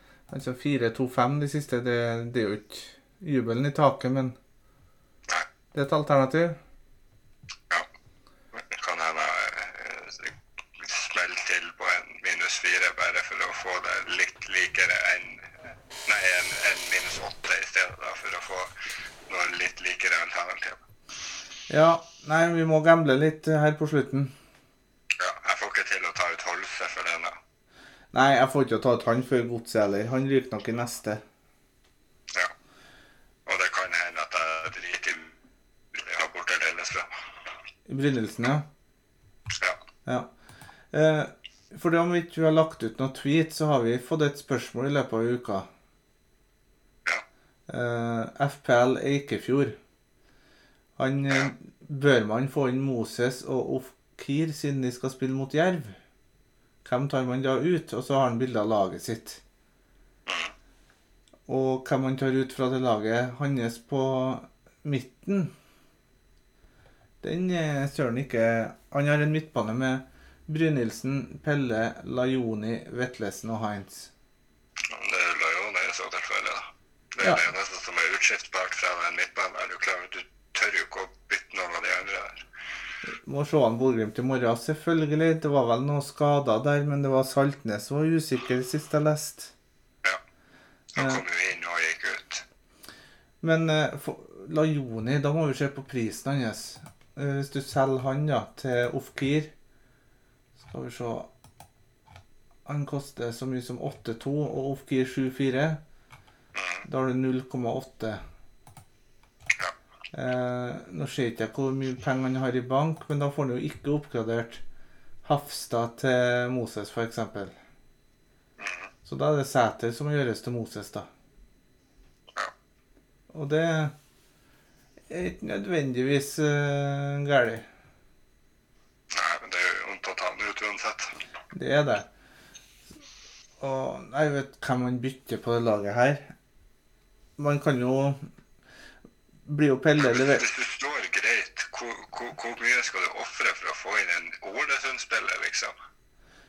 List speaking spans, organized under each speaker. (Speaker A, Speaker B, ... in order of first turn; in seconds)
Speaker A: 0.3-4.3, 5.7-6.6, 21.7-24.3, 28.1-31.2, 37.9-38.6, 40.9-45.7, 47.7-49.8, 51.0-55.9, 56.9-59.4, 61.5-65.5, 67.2-74.1, 83.3-89.5, 91.0-91.2, 93.4-99.5, 100.6-101.3, 102.7-105.8, 106.9-108.2, 110.1-114.6, 115.2-117.5, 119.1-121.1, 123.3-123.9, 125.1-127.7, 131.5-132.1, 133.6-136.3, 137.4-138.2, 139.5-140.4
Speaker B: 8.5-15.5, 16.1-18.7, 19.3-20.8, 25.2-27.4, 33.5-35.4, 35.9-37.1, 60.3-60.5, 74.9-82.4, 91.0-92.4, 106.5-106.9, 118.6-118.9, 129.1-131.1, 140.0-145.7